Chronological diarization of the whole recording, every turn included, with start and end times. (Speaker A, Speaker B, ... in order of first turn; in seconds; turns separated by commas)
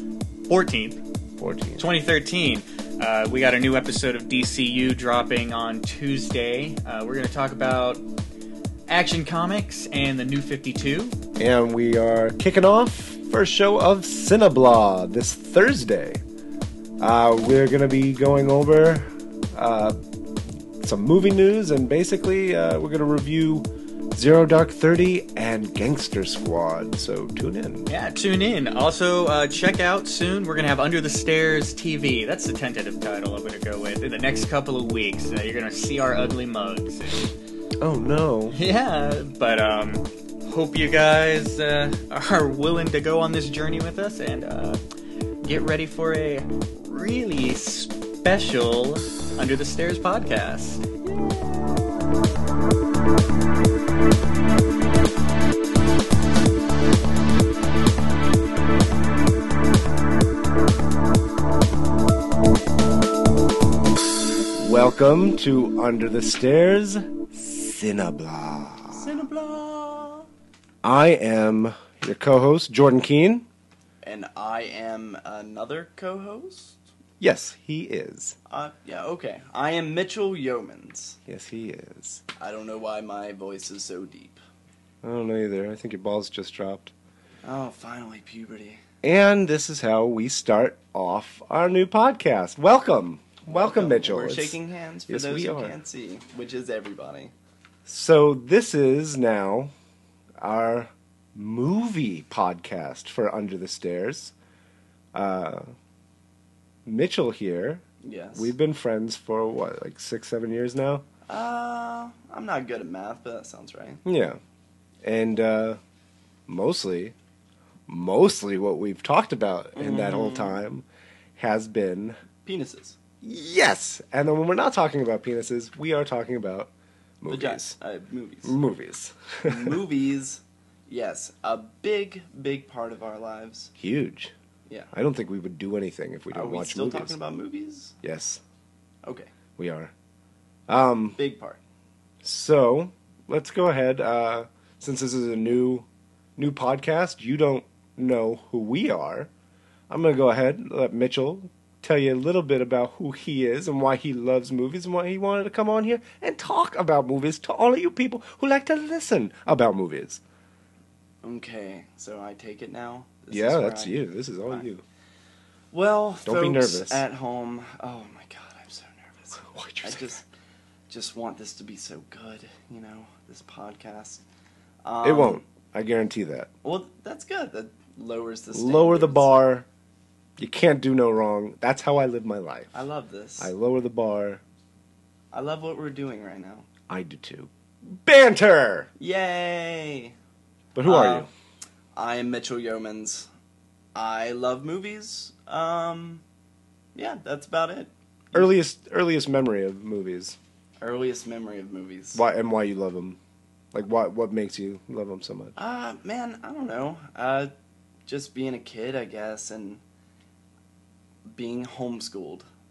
Speaker A: 0.5-1.0, Speaker B: 1.4-1.9, Speaker A: 1.8-8.0, Speaker A: 8.9-11.2, Speaker B: 11.4-16.2, Speaker B: 17.0-20.0, Speaker B: 20.8-27.9, Speaker A: 27.9-37.3, Speaker B: 37.8-38.6, Speaker A: 38.5-44.8, Speaker A: 45.4-52.1, Speaker B: 64.6-69.1, Speaker C: 68.9-70.3, Speaker B: 70.8-73.5, Speaker C: 74.0-76.8, Speaker B: 77.2-78.4, Speaker C: 78.5-81.2, Speaker B: 81.3-82.2, Speaker C: 82.4-84.4, Speaker B: 85.0-86.9, Speaker C: 87.4-88.8, Speaker B: 89.0-94.6, Speaker C: 93.5-97.3, Speaker B: 95.1-95.7, Speaker B: 97.9-99.7, Speaker B: 100.4-104.3, Speaker B: 105.1-105.7, Speaker B: 106.9-107.8, Speaker C: 108.0-108.5, Speaker B: 108.3-111.0, Speaker C: 111.3-114.0, Speaker B: 114.0-114.4, Speaker B: 115.0-115.8, Speaker B: 116.5-117.2, Speaker B: 117.9-120.8, Speaker C: 119.8-120.6, Speaker B: 121.4-122.2, Speaker C: 122.4-123.0, Speaker B: 123.2-127.8, Speaker C: 127.3-128.6, Speaker B: 128.4-129.8, Speaker C: 129.5-133.7, Speaker B: 133.8-134.3, Speaker B: 134.9-137.2, Speaker C: 136.3-137.9, Speaker B: 138.0-138.4, Speaker C: 139.1-139.3, Speaker B: 139.6-139.9, Speaker B: 140.7-141.2, Speaker C: 141.2-141.6, Speaker B: 142.2-149.3, Speaker B: 149.9-160.2, Speaker C: 161.2-164.0, Speaker B: 163.3-164.8, Speaker C: 165.7-170.2, Speaker B: 166.2-167.0, Speaker B: 169.4-170.1, Speaker C: 170.9-174.2, Speaker C: 174.8-175.4, Speaker B: 175.0-176.5, Speaker C: 176.6-179.3, Speaker B: 178.5-179.7, Speaker B: 180.4-182.7, Speaker C: 182.7-183.5, Speaker B: 183.4-184.4, Speaker C: 185.3-186.7, Speaker B: 186.9-188.9, Speaker C: 189.0-190.2, Speaker B: 190.8-191.3, Speaker C: 190.8-191.3, Speaker C: 191.9-193.3, Speaker C: 193.9-196.2, Speaker C: 196.9-198.5, Speaker B: 198.3-200.4, Speaker C: 200.8-202.2, Speaker B: 202.1-203.2, Speaker B: 203.7-205.6, Speaker C: 205.6-207.5, Speaker C: 208.1-209.8, Speaker C: 211.3-212.5